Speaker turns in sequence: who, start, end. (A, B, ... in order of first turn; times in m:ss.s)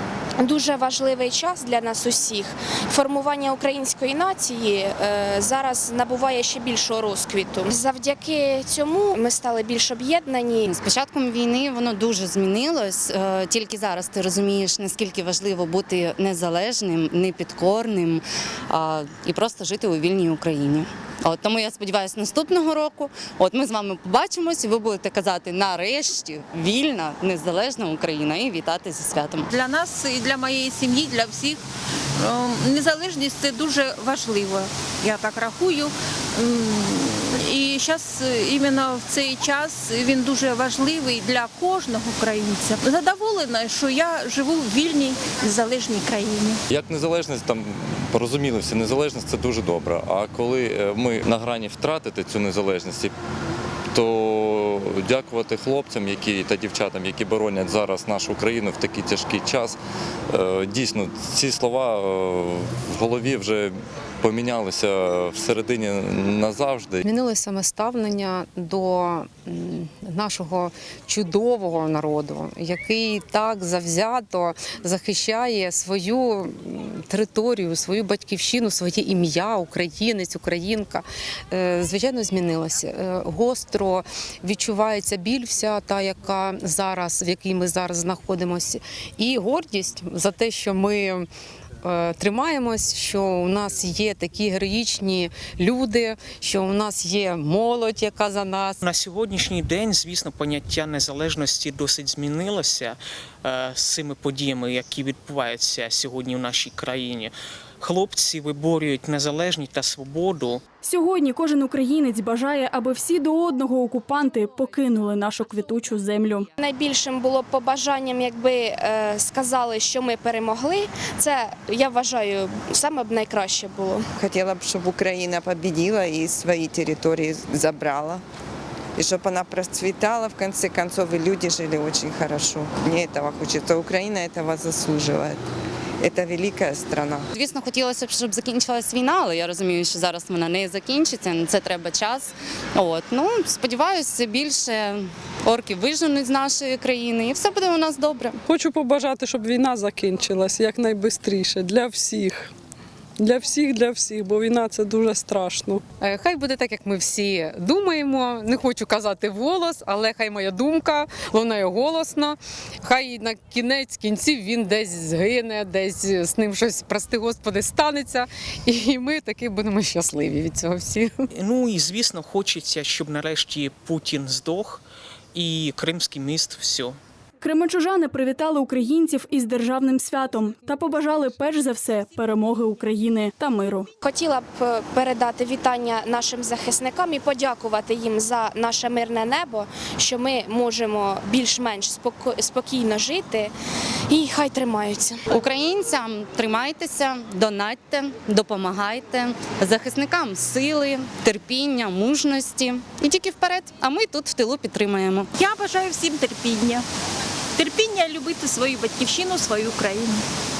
0:00.4-0:10.8 A
0:10.7-0:29.5 B
0:29.5-0:31.6 C
0:32.2-0:46.6 C
0:46.7-0:53.1 D
0:53.9-0:59.8 D
1:00.3-1:07.0 D
1:07.0-1:31.2 E
1:31.8-1:38.8 E
1:38.8-1:50.6 F
1:50.8-1:56.5 G
1:56.6-2:04.0 A
2:04.2-2:08.2 H
2:09.0-2:15.4 H
2:16.0-2:17.3 H
2:17.3-2:28.4 B
2:28.5-2:32.5 I
2:33.2-2:35.8 I
2:36.0-2:51.1 E
2:51.3-2:57.0 F
2:57.4-3:03.9 G
3:04.0-3:13.5 A
3:14.1-3:15.2 A
3:15.3-3:25.3 B
3:25.4-3:26.8 C
3:27.6-3:30.2 C